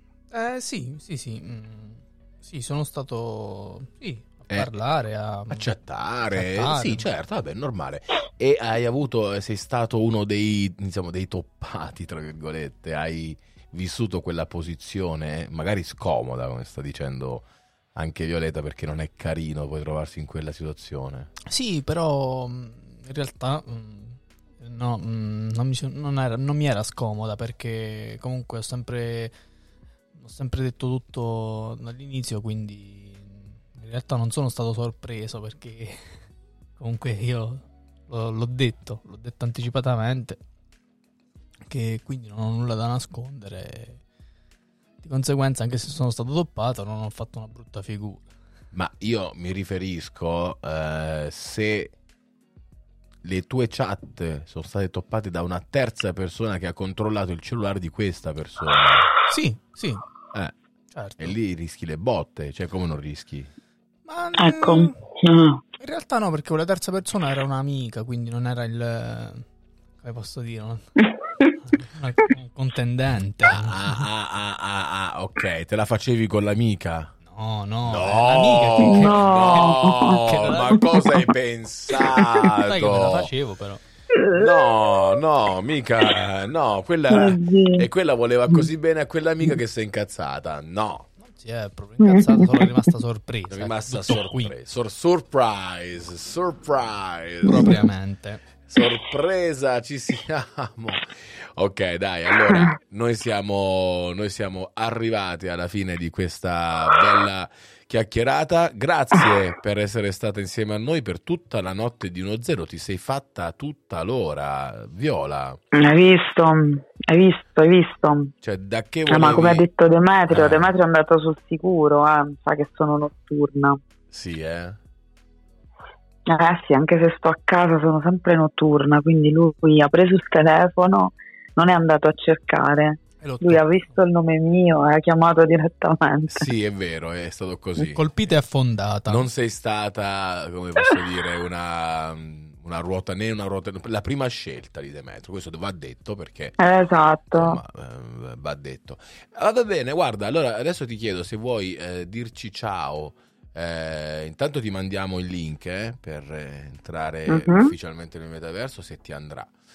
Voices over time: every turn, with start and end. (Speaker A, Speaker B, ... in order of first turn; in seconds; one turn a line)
Speaker A: 0.3-5.7
Speaker B: 5.5-21.3
Speaker A: 6.3-7.1
Speaker A: 21.5-29.3
Speaker A: 30.1-36.2
Speaker A: 36.8-40.4
Speaker A: 41.7-44.0
Speaker A: 45.0-48.2
Speaker B: 48.7-52.0
Speaker B: 53.2-59.1
Speaker A: 59.3-60.1
Speaker A: 60.9-61.4
Speaker B: 61.2-63.5
Speaker A: 64.1-65.0
Speaker C: 64.4-65.6
Speaker A: 65.8-69.5
Speaker A: 70.0-70.9
Speaker A: 71.6-74.1
Speaker B: 73.4-77.1
Speaker A: 77.2-80.8
Speaker B: 77.9-83.3
Speaker C: 78.8-80.2
Speaker A: 82.4-83.8
Speaker C: 84.2-84.4
Speaker B: 84.3-91.1
Speaker C: 87.1-87.8
Speaker A: 91.2-94.5
Speaker C: 92.0-92.3
Speaker B: 93.5-97.8
Speaker A: 97.5-98.4
Speaker B: 98.7-115.6
Speaker C: 115.8-118.3
Speaker B: 118.4-119.7
Speaker C: 119.1-123.8
Speaker B: 120.3-120.8
Speaker B: 124.1-124.8
Speaker C: 126.3-136.5
Speaker A: 133.2-133.7
Speaker B: 136.3-138.1
Speaker A: 137.8-139.3
Speaker B: 139.1-146.6
Speaker C: 146.6-147.6
Speaker B: 147.3-159.5
Speaker C: 157.3-157.7